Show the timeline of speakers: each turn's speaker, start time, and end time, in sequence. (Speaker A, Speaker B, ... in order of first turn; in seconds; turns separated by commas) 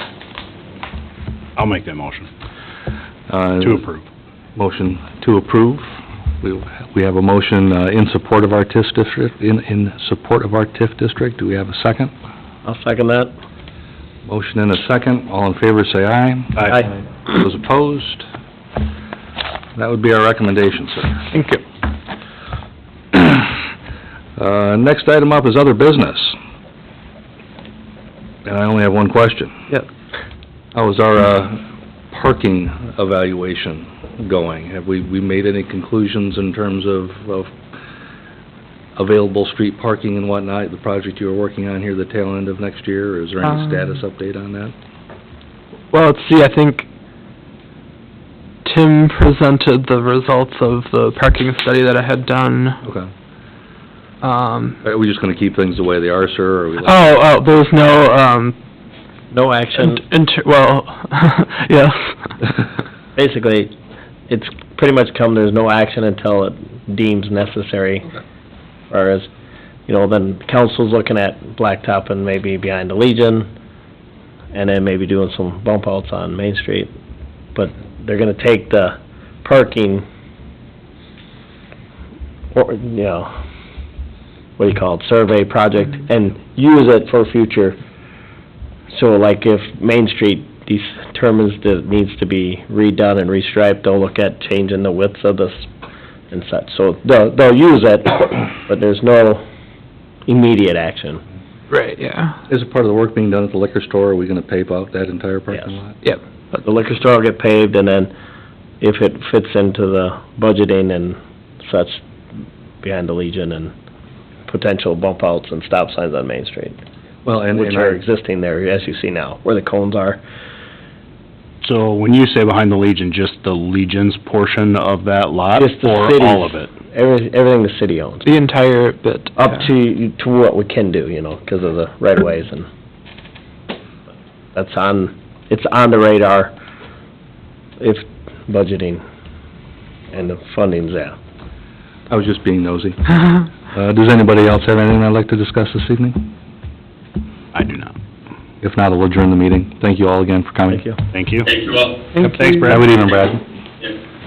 Speaker A: 1.6-2.3, Speaker B: 3.3-3.8, Speaker A: 3.6-4.0, Speaker B: 4.5-12.1, Speaker C: 12.6-13.3, Speaker B: 14.2-18.2, Speaker B: 19.7-21.3, Speaker D: 21.3-21.6, Speaker B: 23.1-23.6, Speaker B: 24.4-26.4, Speaker B: 28.4-29.6, Speaker B: 30.7-37.5, Speaker B: 38.9-44.7, Speaker D: 45.9-46.9, Speaker D: 48.6-52.8, Speaker B: 52.8-53.1, Speaker D: 54.2-54.8, Speaker B: 54.8-57.2, Speaker D: 56.8-58.6, Speaker C: 59.3-60.0, Speaker D: 59.8-62.6, Speaker C: 63.1-63.7, Speaker C: 64.3-68.1, Speaker C: 68.9-69.3, Speaker C: 69.9-73.5, Speaker C: 74.5-76.9, Speaker C: 77.5-80.0, Speaker C: 82.5-83.3, Speaker C: 84.6-87.8, Speaker C: 88.9-95.7, Speaker C: 96.3-99.4, Speaker C: 100.3-101.2, Speaker D: 101.7-102.4, Speaker B: 102.5-106.0, Speaker C: 106.6-108.1, Speaker C: 108.8-112.0, Speaker C: 112.8-113.7, Speaker C: 114.5-116.8, Speaker B: 117.2-118.0, Speaker C: 117.5-120.2, Speaker A: 121.6-126.7, Speaker C: 125.5-128.3, Speaker D: 128.2-129.7, Speaker C: 129.4-132.7, Speaker C: 134.5-136.5, Speaker C: 137.8-139.0, Speaker C: 140.1-141.1, Speaker B: 142.1-146.3, Speaker A: 147.5-147.9, Speaker B: 148.6-150.9, Speaker C: 150.7-151.0, Speaker A: 151.1-151.7, Speaker D: 152.1-152.8, Speaker A: 152.3-153.2, Speaker B: 153.1-153.4